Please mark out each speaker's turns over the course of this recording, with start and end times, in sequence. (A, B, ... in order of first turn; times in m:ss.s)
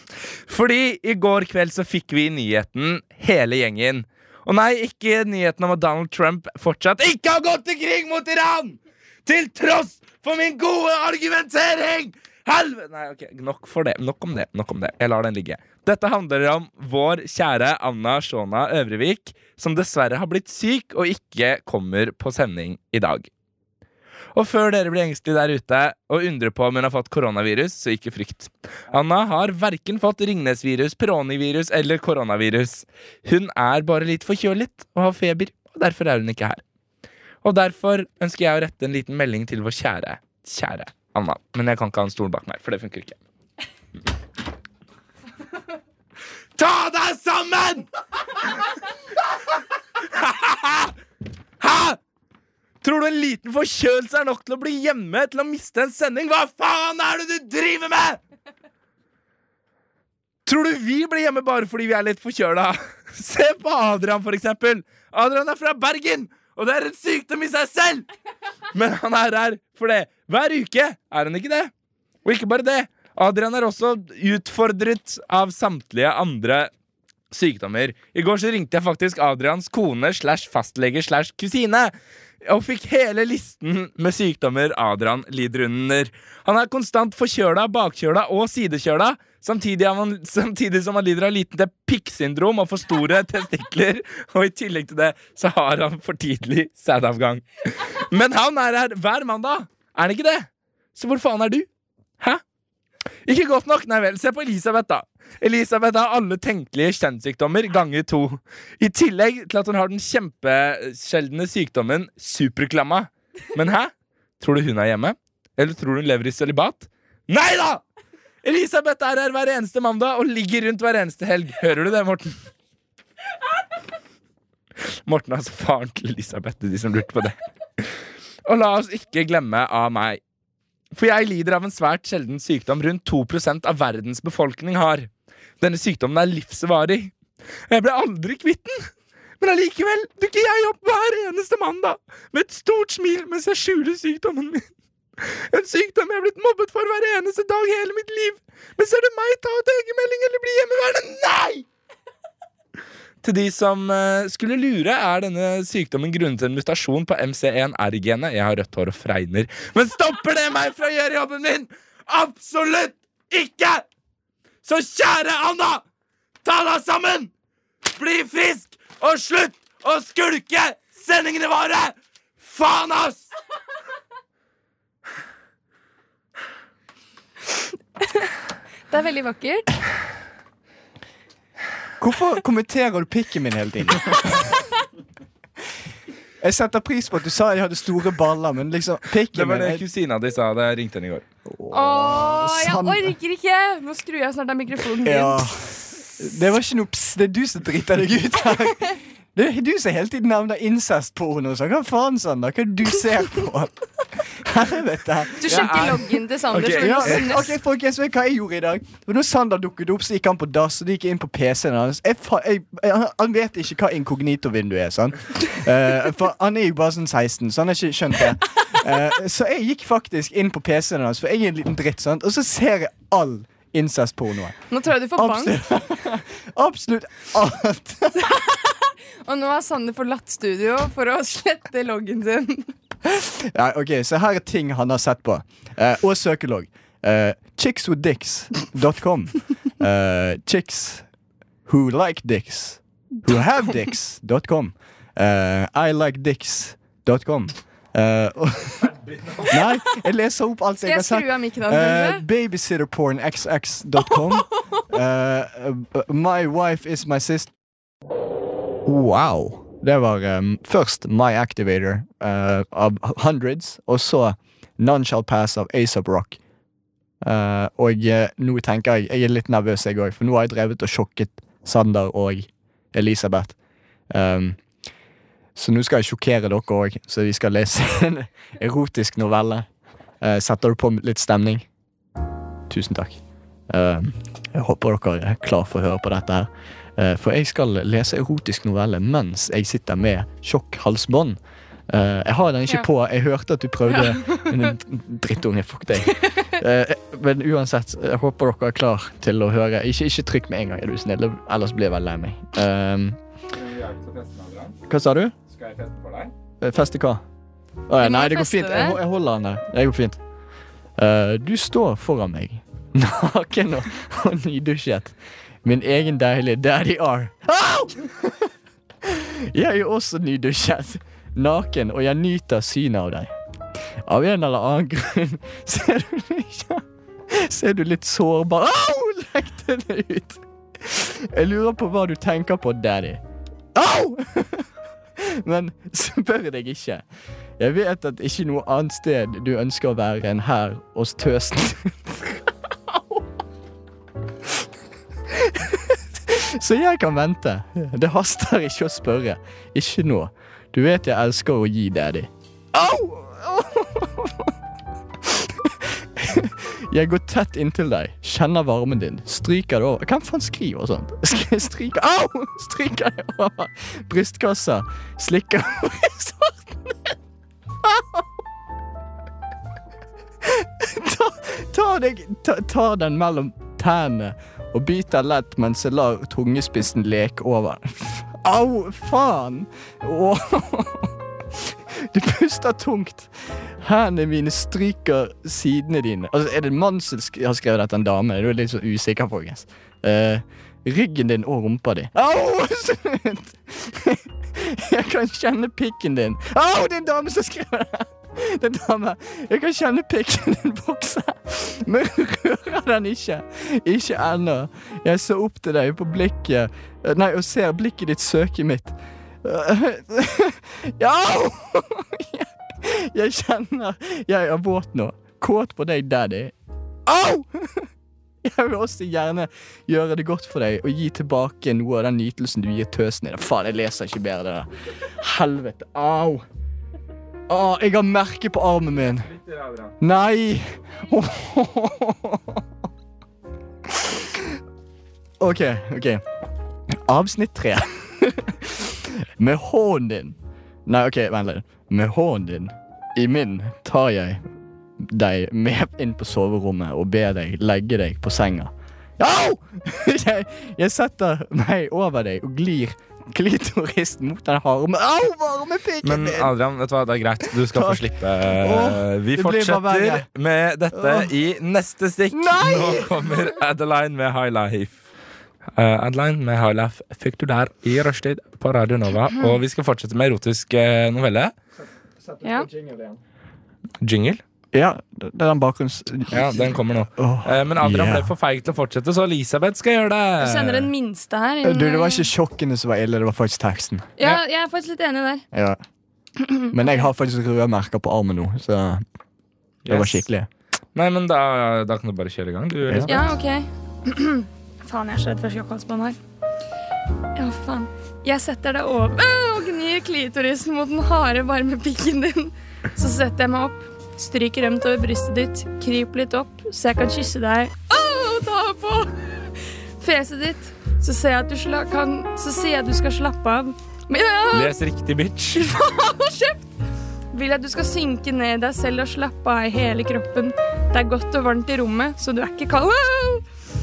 0:00.5-0:23.3 A
0:24.3-0:36.6 A
0:37.4-0:43.2 A
0:46.6-0:47.9 A
0:50.0-0:50.9 A
0:51.6-0:52.0 A
0:52.8-0:58.2 A
1:00.4-1:08.1 A
1:08.7-1:11.7 A
1:12.2-1:16.7 A
1:17.3-1:21.9 A
1:22.4-1:41.7 A
1:43.2-1:57.8 A
1:58.4-2:02.3 A
2:05.0-2:07.9 A
2:08.4-2:10.2 A
2:10.9-2:15.1 A
2:15.6-2:17.1 A
2:17.7-2:24.7 A
2:25.2-2:31.6 A
2:33.2-2:43.8 A
2:44.6-2:45.8 A
2:46.4-2:47.3 A
2:47.9-2:53.3 A
2:58.9-2:59.7 B
3:02.0-3:04.5 C
3:04.3-3:04.6 B
3:06.4-3:09.8 C
3:09.3-3:11.2 A
3:11.4-3:13.1 C
3:11.7-3:15.5 B
3:15.0-3:44.6 C
3:25.4-3:27.5 B
3:25.5-3:26.0 A
3:26.5-3:27.5 A
3:44.7-3:45.6 B
3:45.1-3:48.4 C
3:48.2-3:52.7 B
3:53.0-4:01.0 C
4:01.6-4:17.5 C
4:08.8-4:09.5 A
4:10.8-4:12.2 B
4:18.8-4:26.4 C
4:27.2-4:33.6 C
4:34.1-4:34.6 C
4:35.6-4:39.7 C
4:40.2-4:41.6 C
4:42.7-5:03.2 C
4:53.9-4:54.7 B
4:56.2-4:56.5 B
5:03.5-5:04.8 A
5:04.8-5:05.3 C
5:05.5-5:06.3 A
5:06.6-5:07.2 C
5:07.9-5:10.2 C
5:08.0-5:09.0 B
5:11.0-5:18.5 C
5:19.0-5:23.3 C
5:24.0-5:33.2 C
5:33.7-5:37.0 C
5:37.6-5:43.2 C
5:45.3-5:54.5 C
5:55.2-6:07.2 C
6:07.8-6:08.3 C
6:10.4-6:56.5 C
6:57.0-6:57.9 C
6:58.4-7:06.4 C
7:07.5-7:09.3 C
7:09.3-7:09.9 A
7:10.0-7:12.6 C
7:13.8-7:14.5 C
7:15.4-7:16.2 C
7:16.9-7:24.4 C
7:25.0-7:36.5 C
7:36.0-7:45.0 A
7:37.4-7:40.3 C
7:40.9-7:41.3 C
7:42.3-7:43.5 C
7:45.7-7:51.5 A
7:52.2-7:53.2 C
7:54.0-7:54.4 A
7:54.7-7:58.3 C
7:56.3-8:00.9 A
8:00.4-8:02.3 B
8:01.6-8:04.1 C
8:04.2-8:05.4 B
8:05.5-8:05.8 C
8:06.5-8:07.1 B
8:06.7-8:09.0 C
8:09.8-8:10.2 A
8:09.8-8:10.5 C
8:10.9-8:13.2 A
8:12.9-8:13.1 C
8:13.1-8:16.2 B
8:17.4-8:29.5 B
8:30.0-8:34.7 B
8:34.5-8:35.8 A
8:35.6-8:36.7 B
8:37.3-8:43.4 B